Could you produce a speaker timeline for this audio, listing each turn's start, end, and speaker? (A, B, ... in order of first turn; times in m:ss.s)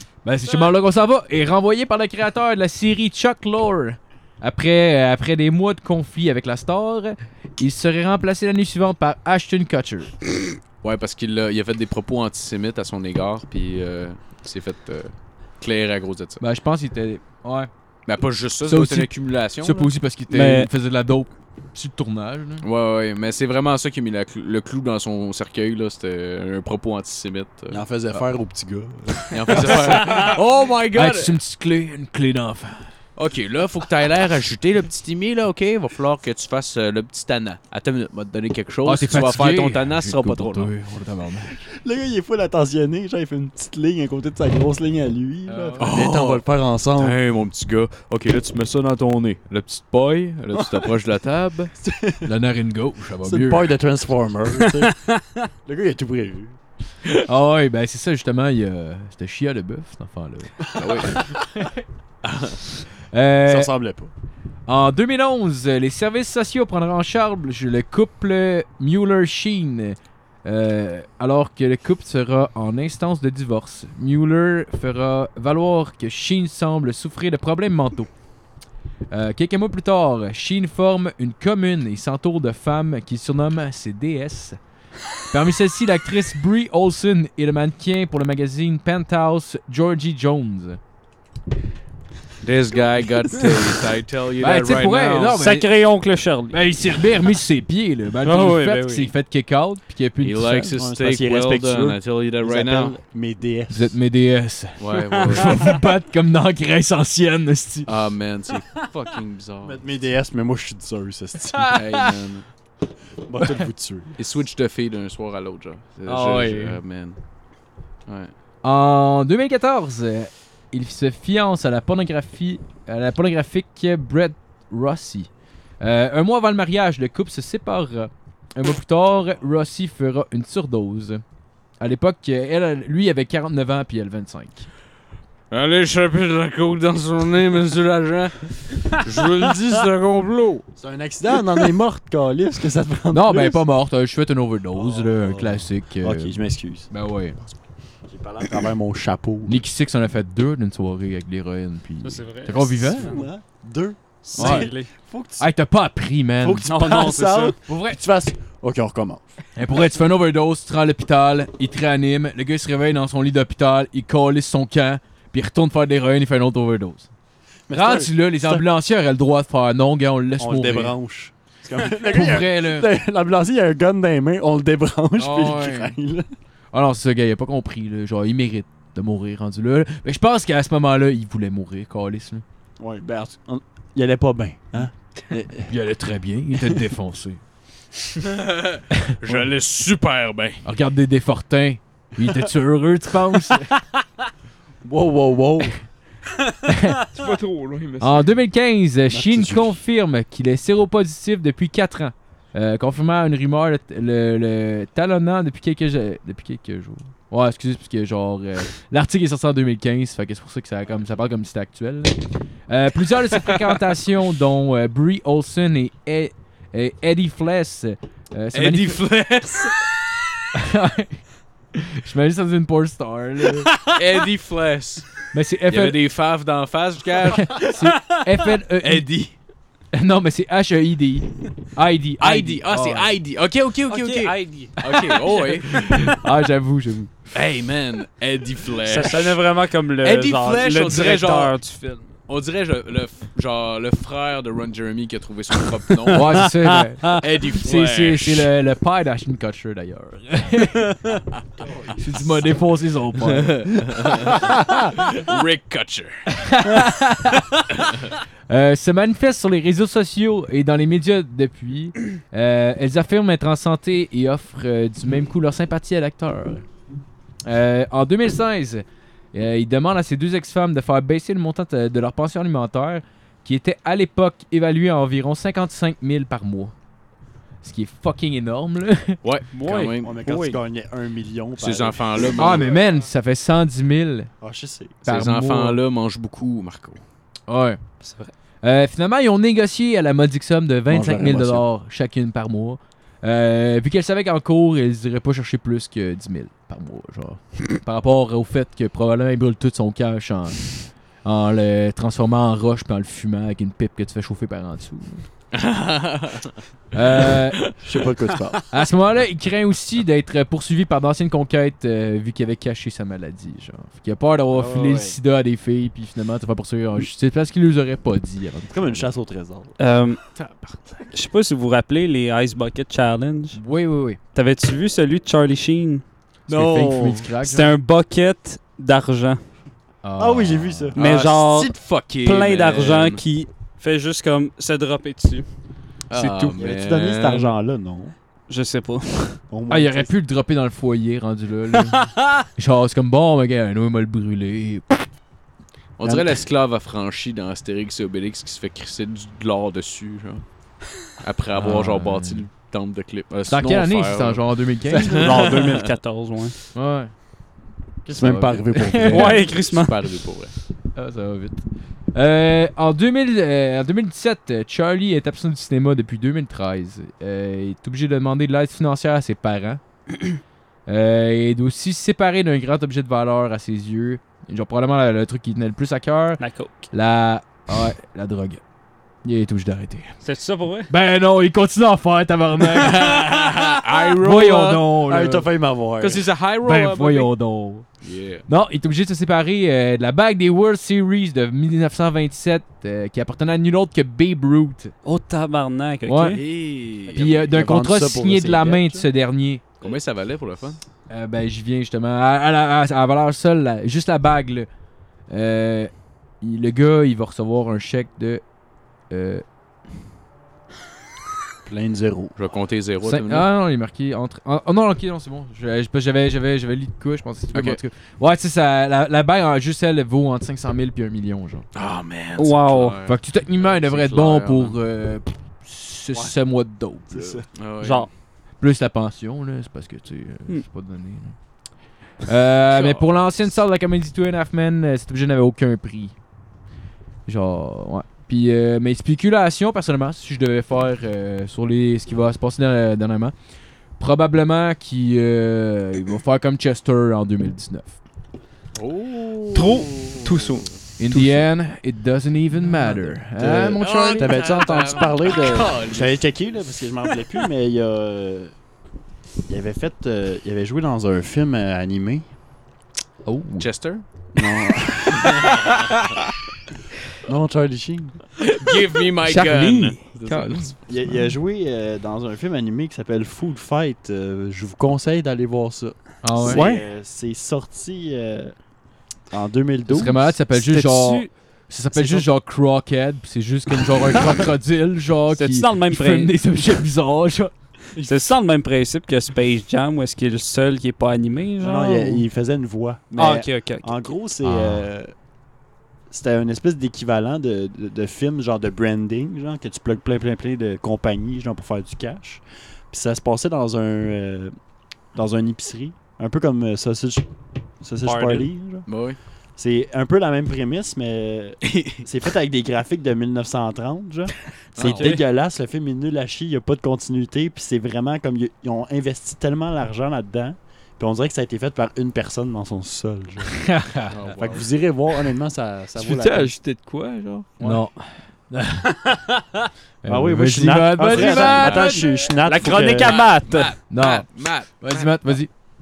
0:00.2-0:10.1 A
0:10.8-0:16.4 B
0:16.4-0:17.7 A
0:18.0-0:19.9 B
0:18.6-0:22.6 A
0:20.3-0:20.7 C
0:22.6-0:28.2 B
0:27.7-0:30.3 D
0:29.3-0:31.4 B
0:29.6-0:30.4 A
0:30.9-0:32.8 A
0:33.2-0:40.7 B
0:38.8-0:41.6 A
0:41.5-0:47.2 D
0:45.5-0:45.9 A
0:45.8-0:51.7 B
0:51.8-0:52.3 D
0:52.2-0:53.7 A
0:53.2-0:54.9 D
0:54.8-0:55.2 C
0:55.6-0:56.6 D
0:57.2-1:01.8 A
1:00.8-1:01.2 B
1:00.8-1:01.0 D
1:02.2-1:02.6 B
1:03.1-1:03.7 A
1:03.4-1:04.1 D
1:04.7-1:18.1 A
1:19.1-1:24.6 A
1:25.3-1:30.8 A
1:32.4-1:35.4 B
1:34.4-1:35.7 A
1:35.3-1:36.6 C
1:36.5-1:40.7 A
1:38.2-1:39.1 C
1:40.2-1:42.9 B
1:40.8-1:43.9 D
1:43.7-1:47.9 A
1:44.8-1:45.8 B
1:47.9-1:49.8 B
1:49.6-1:51.8 D
1:51.5-1:52.1 A
1:51.7-1:52.4 B
1:53.2-1:54.2 D
1:54.2-1:57.2 B
1:56.0-1:56.8 A
1:58.1-1:58.3 B
1:58.6-2:11.2 A
2:11.8-2:14.7 A
2:15.5-2:20.6 B
2:20.7-2:23.6 D
2:23.1-2:26.4 A
2:24.8-2:26.9 D
2:26.9-2:27.4 A
2:28.0-2:29.6 D
2:29.4-2:33.2 A
2:32.0-2:33.2 C
2:32.5-2:35.5 D
2:34.2-2:34.9 C
2:34.4-2:34.7 A
2:35.4-2:36.7 A
2:36.4-2:39.3 D
2:36.6-2:37.6 C
2:37.6-2:38.0 A
2:39.6-2:47.1 A
2:47.7-2:48.6 D
2:47.7-2:50.9 A
2:50.4-2:56.2 D
2:51.9-2:52.9 A
2:55.2-2:56.0 A
2:56.7-3:02.4 A
3:02.8-3:05.7 D
3:05.7-3:07.4 A
3:08.2-3:10.6 B
3:08.9-3:09.2 A
3:10.6-3:13.7 A
3:14.8-3:15.8 D
3:16.6-3:17.0 A
3:17.1-3:18.3 E
3:18.0-3:39.0 A
3:19.1-3:19.8 D
3:38.5-3:39.9 B
3:40.5-3:41.2 A
3:41.8-3:43.7 A
3:43.9-3:47.7 B
3:45.3-3:46.0 A
3:47.3-3:49.1 A
3:48.8-3:49.3 B
3:49.9-3:53.1 A
3:52.2-3:56.2 B
3:53.9-3:55.2 C
3:55.7-3:57.1 A
3:57.3-3:59.4 B
3:58.8-4:02.1 C
4:00.0-4:01.6 B
4:02.3-4:08.5 B
4:06.1-4:11.1 A
4:11.6-4:12.1 D
4:12.0-4:14.3 A
4:13.2-4:16.2 B
4:16.3-4:17.7 A
4:18.5-4:26.6 A
4:27.4-4:36.7 A
4:37.6-4:39.2 A
4:39.2-4:40.1 B
4:39.5-4:40.6 C
4:40.0-4:42.7 D
4:41.6-4:42.7 B
4:42.4-4:44.3 A
4:44.4-4:45.0 D
4:45.0-4:45.8 A
4:45.0-4:47.0 B
4:47.5-4:47.8 A
4:48.0-4:48.3 C
4:48.6-5:05.2 A
4:50.9-4:51.6 D
5:05.5-5:06.6 B
5:06.9-5:07.7 A
5:07.8-5:08.6 D
5:08.7-5:19.1 A
5:14.5-5:15.2 D
5:18.7-5:19.8 D
5:19.8-5:20.2 C
5:20.4-5:21.0 A
5:21.1-5:23.6 C
5:23.5-5:24.2 A
5:24.3-5:26.0 C
5:26.5-5:27.7 A
5:26.5-5:27.2 D
5:27.4-5:29.4 C
5:30.0-5:30.9 A
5:30.2-5:31.0 D
5:30.9-5:33.2 B
5:30.9-5:35.4 C
5:36.1-5:37.5 B
5:36.1-5:36.6 C
5:36.6-5:38.1 D
5:38.5-5:39.4 C
5:39.5-5:40.1 D
5:39.7-5:45.1 A
5:46.0-5:50.4 B
5:46.0-5:46.4 D
5:51.2-5:55.8 B
5:51.5-5:52.5 A
5:53.5-5:55.3 A
5:54.9-5:55.9 D
5:55.4-5:56.5 C
5:56.7-5:57.1 A
5:58.0-5:59.5 D
5:58.1-5:59.4 A
5:59.0-5:59.9 C
5:59.4-6:00.5 B
6:00.9-6:09.8 A
6:10.9-6:18.6 A
6:16.4-6:16.7 C
6:19.2-6:20.2 A
6:20.2-6:20.9 C
6:20.9-6:25.5 A
6:22.8-6:24.9 B
6:25.1-6:26.2 D
6:26.0-6:27.3 B
6:26.6-6:27.8 A
6:28.0-6:28.4 B
6:28.5-6:34.9 A
6:35.0-6:36.4 C
6:36.1-6:36.4 A
6:36.3-6:37.4 B
6:37.1-6:39.6 A
6:37.5-6:39.1 D
6:39.8-6:40.8 B
6:41.1-6:44.7 A
6:45.3-6:48.4 A
6:49.1-6:49.4 A
6:51.6-6:52.3 D
6:52.4-6:53.5 B
6:53.0-7:01.6 A
6:57.5-6:57.8 B
7:01.7-7:04.7 B
7:02.4-7:03.0 C
7:03.0-7:07.4 A
7:07.1-7:07.4 D
7:07.5-7:08.0 B
7:07.8-7:08.1 C
7:08.6-7:11.4 A
7:12.2-7:16.1 A
7:12.7-7:13.1 B
7:17.2-7:23.3 A
7:24.0-7:28.0 A
7:28.8-7:30.6 B
7:29.5-7:31.4 E
7:31.0-7:34.4 A
7:33.4-7:38.5 D
7:33.8-7:36.2 B
7:39.5-7:42.3 D
7:43.2-7:43.7 A
7:43.6-7:44.0 B
7:44.4-7:45.5 D
7:45.2-7:45.9 B
7:47.2-7:48.2 D
7:48.6-7:50.7 B
7:49.2-7:50.7 E
7:50.9-7:58.5 D
7:56.2-7:56.6 A
7:56.4-7:56.8 E
7:59.3-8:00.4 D
7:59.9-8:07.5 A
8:00.5-8:01.3 C
8:05.3-8:06.3 C
8:08.0-8:08.3 D
8:08.0-8:12.2 C
8:11.6-8:15.1 D
8:13.2-8:14.0 C
8:14.4-8:14.8 A
8:16.1-8:24.5 D
8:25.1-8:27.3 D
8:27.8-8:28.8 D
8:28.0-8:28.5 C
8:28.8-8:29.2 B
8:29.6-8:43.6 D
8:31.7-8:32.0 B
8:34.8-8:35.2 B
8:43.6-8:44.1 A
8:44.1-8:44.6 B
8:44.3-8:46.6 D
8:46.0-8:47.5 E
8:47.6-8:47.8 D
8:47.6-8:49.3 A
8:50.0-8:52.0 A
8:50.0-8:53.2 D
8:51.1-8:53.7 C
8:51.4-8:52.1 B
8:52.8-8:55.4 B
8:53.9-8:55.5 A